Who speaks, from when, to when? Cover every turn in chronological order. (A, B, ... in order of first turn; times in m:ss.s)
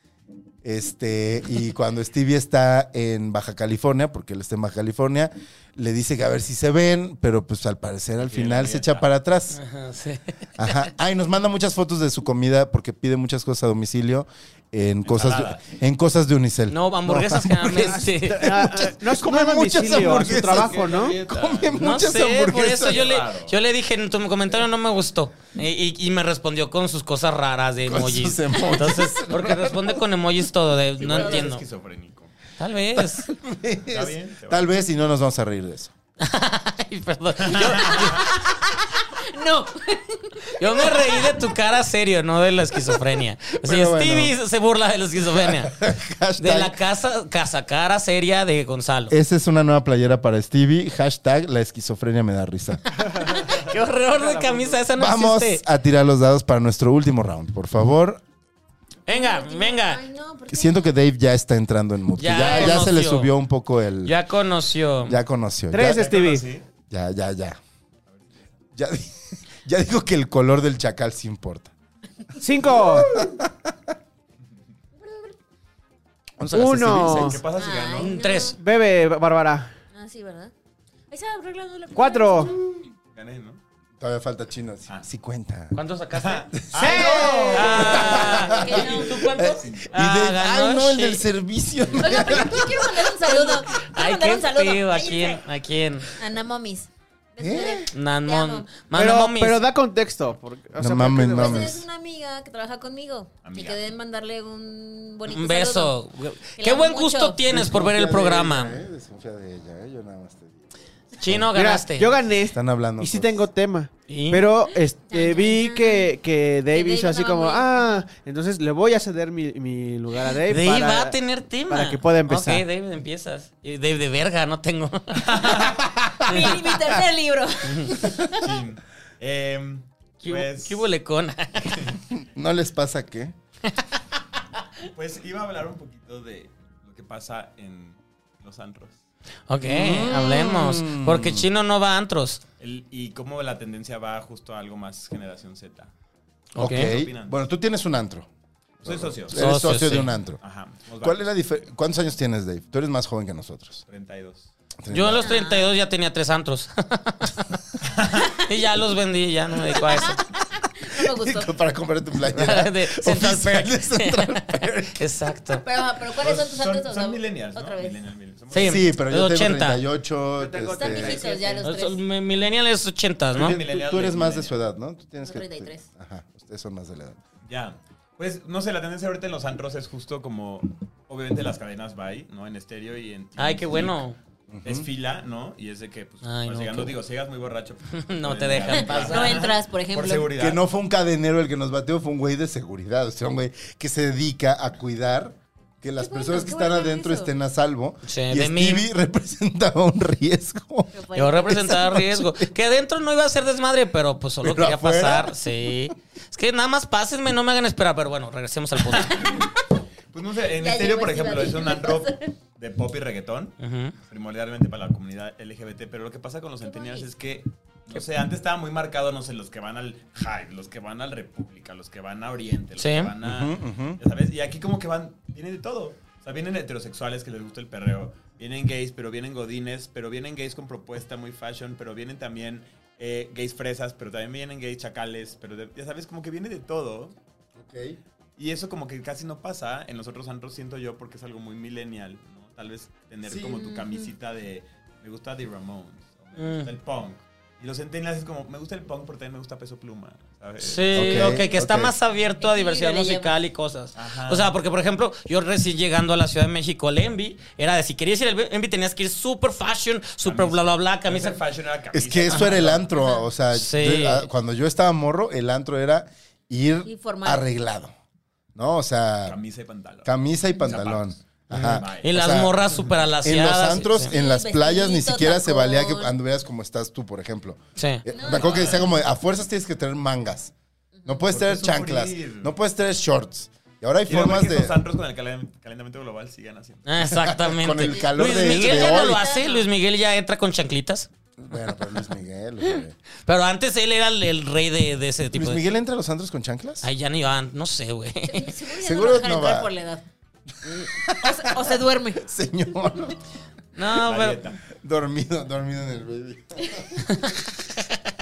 0:00.6-0:09.6 A
0:08.2-0:09.0 B
0:09.5-0:10.9 C
0:10.6-0:23.2 A
0:15.0-0:15.6 B
0:16.7-0:18.4 C
0:18.1-0:21.2 D
0:19.9-0:22.0 B
0:21.8-0:31.6 C
0:22.6-0:23.6 B
0:27.8-0:30.1 A
0:31.0-0:32.3 B
0:31.1-0:31.5 E
0:32.6-0:33.3 C
0:33.0-0:35.9 A
0:33.9-0:34.7 B
0:36.2-0:38.4 C
0:37.5-0:38.1 B
0:37.9-0:41.4 E
0:40.6-0:45.7 C
0:43.6-0:44.4 A
0:45.3-0:46.8 A
0:46.4-0:49.2 C
0:49.1-0:53.0 A
0:53.0-0:55.6 C
0:54.2-0:54.7 D
0:55.0-0:58.2 A
0:59.1-1:00.0 C
0:59.1-1:00.9 E
1:00.5-1:04.2 A
1:02.2-1:03.3 C
1:04.0-1:05.2 C
1:05.1-1:06.1 A
1:05.7-1:06.5 D
1:05.8-1:06.6 B
1:06.9-1:07.6 A
1:08.1-1:08.4 B
1:08.8-1:11.7 A
1:12.4-1:13.2 D
1:12.9-1:13.7 A
1:15.0-1:15.4 E
1:16.4-1:17.4 A
1:16.5-1:17.4 D
1:17.0-1:18.2 B
1:17.5-1:18.6 E
1:18.0-1:18.6 C
1:18.6-1:19.7 D
1:19.9-1:20.5 E
1:21.1-1:22.6 E
1:21.9-1:22.6 D
1:23.1-1:23.6 B
1:24.0-1:25.8 A
1:25.7-1:26.5 C
1:26.2-1:28.5 B
1:26.5-1:27.0 A
1:26.8-1:27.8 D
1:26.9-1:29.4 E
1:27.5-1:31.3 C
1:27.8-1:33.1 A
1:29.6-1:29.9 B
1:31.9-1:32.2 B
1:32.0-1:35.4 E
1:33.4-1:36.1 C
1:36.2-1:38.7 E
1:37.4-1:37.9 A
1:37.9-1:39.6 C
1:39.0-1:41.7 D
1:40.8-1:41.8 A
1:41.3-1:45.9 E
1:43.4-1:43.9 B
1:45.3-1:48.8 C
1:46.6-1:47.4 E
1:47.5-1:50.7 A
1:51.2-1:52.1 C
1:51.5-2:01.2 D
1:52.4-1:53.5 A
1:54.1-1:54.5 C
1:55.1-1:56.1 E
1:56.7-1:58.0 E
2:00.5-2:05.6 C
2:01.7-2:02.6 D
2:05.2-2:05.8 B
2:06.2-2:08.5 E
2:08.4-2:10.9 B
2:10.2-2:11.9 C
2:12.1-2:13.4 A
2:13.7-2:13.9 C
2:14.9-2:19.0 B
2:19.5-2:22.4 C
2:19.6-2:21.5 A
2:22.6-2:25.9 B
2:26.6-2:26.9 C
2:26.6-2:28.3 A
2:26.7-2:27.5 B
2:28.8-2:30.4 A
2:28.8-2:29.8 B
2:29.3-2:30.1 C
2:30.4-2:31.3 B
2:31.0-2:33.8 A
2:33.9-2:34.5 B
2:34.8-2:35.4 A
2:34.9-2:37.4 C
2:35.2-2:35.7 E
2:37.8-2:38.3 B
2:38.3-2:40.2 C
2:39.8-2:41.5 E
2:40.9-2:45.1 A
2:42.3-2:45.6 C
2:45.5-2:48.0 E
2:46.1-2:49.0 B
2:48.5-2:49.8 C
2:48.6-2:51.3 A
2:50.4-2:51.7 B
2:50.6-2:52.0 E
2:51.6-2:53.6 C
2:53.3-2:54.6 B
2:53.4-2:57.2 A
2:55.2-2:55.9 E
2:57.5-3:04.0 B
3:03.4-3:04.2 C
3:04.5-3:04.9 A
3:04.6-3:10.6 B
3:06.2-3:07.0 C
3:08.0-3:09.1 C
3:08.7-3:10.3 E
3:08.9-3:09.4 A
3:10.4-3:22.6 A
3:16.0-3:17.3 E
3:18.0-3:18.9 C
3:20.9-3:21.8 E
3:21.2-3:29.3 C
3:24.4-3:25.7 A
3:28.8-3:29.5 B
3:30.1-3:33.6 B
3:30.6-3:32.3 E
3:33.6-3:34.0 C
3:34.1-3:57.2 B
3:36.6-3:37.1 E
3:42.8-3:43.1 C
3:43.2-3:44.0 A
3:57.6-3:58.0 A
3:58.4-4:11.2 B
4:03.3-4:03.7 A
4:03.7-4:04.1 E
4:06.4-4:06.7 C
4:10.6-4:21.4 C
4:10.9-4:11.9 A
4:11.3-4:11.6 E
4:12.3-4:13.3 E
4:14.0-4:14.5 B
4:20.2-4:23.0 B
4:21.9-4:27.9 A
4:22.9-4:23.3 E
4:23.5-4:24.3 C
4:26.8-4:27.4 E
4:28.6-4:29.4 A
4:29.2-4:33.1 B
4:30.0-4:32.6 A
4:31.5-4:34.1 C
4:33.2-4:40.5 A
4:34.1-4:36.1 E
4:37.8-4:38.0 C
4:38.1-4:38.8 E
4:38.2-4:38.9 B
4:41.0-4:41.2 E
4:41.1-4:44.8 A
4:41.3-4:42.5 B
4:44.1-4:46.9 B
4:46.9-4:51.1 C
4:47.1-4:49.2 A
4:47.9-4:49.7 E
4:51.4-4:53.0 A
4:53.3-4:55.6 C
4:55.3-4:56.9 A
4:56.8-4:58.5 C
4:58.2-5:00.0 E
4:58.8-4:59.7 A
5:00.7-5:03.2 A
5:01.1-5:02.2 E
5:03.8-5:04.4 C
5:04.0-5:04.6 B
5:04.7-5:07.4 A